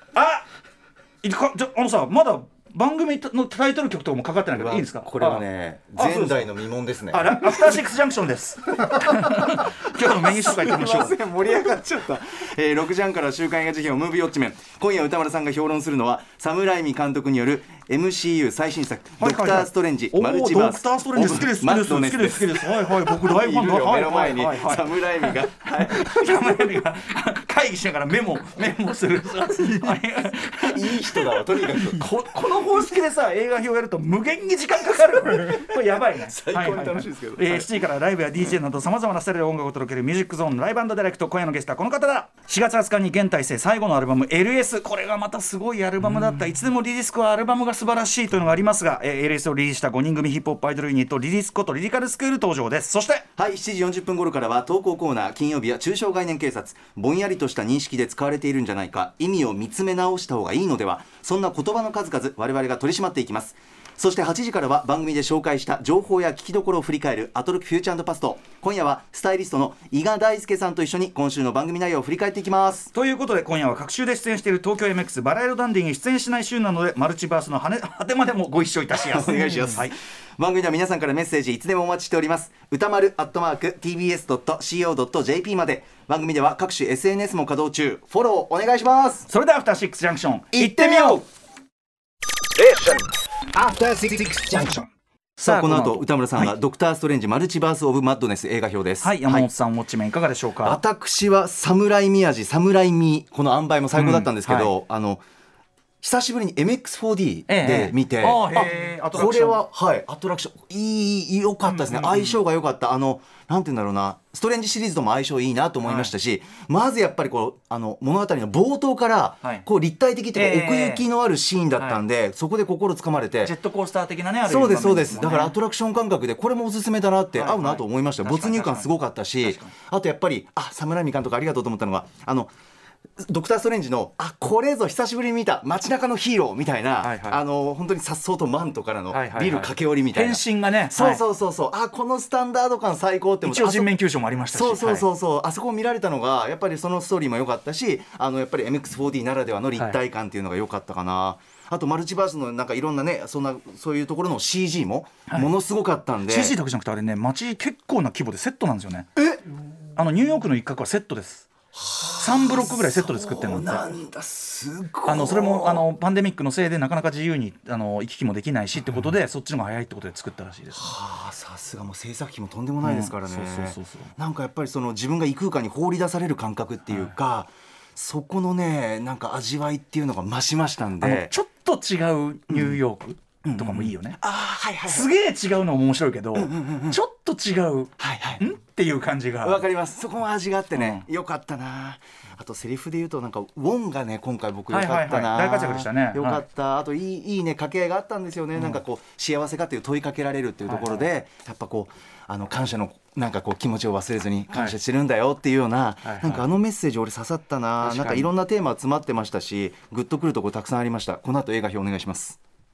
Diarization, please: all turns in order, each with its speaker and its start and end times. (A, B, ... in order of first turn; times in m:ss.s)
0:00.1-0:00.4 A
0:01.2-0:05.4 A
0:04.5-0:07.6 B
0:05.9-0:06.5 A
0:07.1-0:11.2 A
0:08.9-0:26.8 B
0:19.2-0:53.3 A
0:30.5-0:32.1 B
0:35.0-0:37.7 B
0:53.4-1:12.9 B
1:12.9-1:19.9 A
1:19.0-1:29.3 B
1:29.3-1:31.2 A
1:30.5-1:31.2 B
1:32.6-1:34.9 B
1:35.4-1:36.6 A
1:35.4-1:39.5 B
1:39.0-1:40.8 A
1:40.6-1:45.2 B
1:43.9-1:44.7 A
1:46.0-2:03.5 B
1:47.5-1:49.6 A
1:51.6-1:52.4 A
1:55.8-1:56.1 A
2:00.3-2:01.1 A
2:01.8-2:02.0 A
2:03.4-2:05.6 A
2:04.4-2:12.5 B
2:07.3-2:08.9 A
2:09.4-2:09.7 A
2:13.2-2:23.9 B
2:17.0-2:17.4 A
2:19.1-2:21.2 A
2:23.4-2:25.1 A
2:24.5-2:36.6 B
2:36.3-2:39.1 A
2:40.0-2:41.5 A
2:41.8-2:45.8 B
2:42.2-2:44.0 A
2:45.1-2:50.9 A
2:50.8-3:01.3 B
2:52.8-2:54.1 A
2:56.9-2:57.1 A
3:01.0-3:04.2 A
3:02.5-3:02.8 B
3:03.4-3:05.1 B
3:04.9-3:09.6 A
3:06.4-3:07.0 B
3:08.0-3:08.4 B
3:09.4-3:32.4 B
3:10.7-3:11.1 A
3:14.7-3:16.4 A
3:18.6-3:18.8 A
3:20.6-3:21.0 A
3:24.5-3:24.8 A
3:26.0-3:26.4 A
3:27.8-3:28.3 A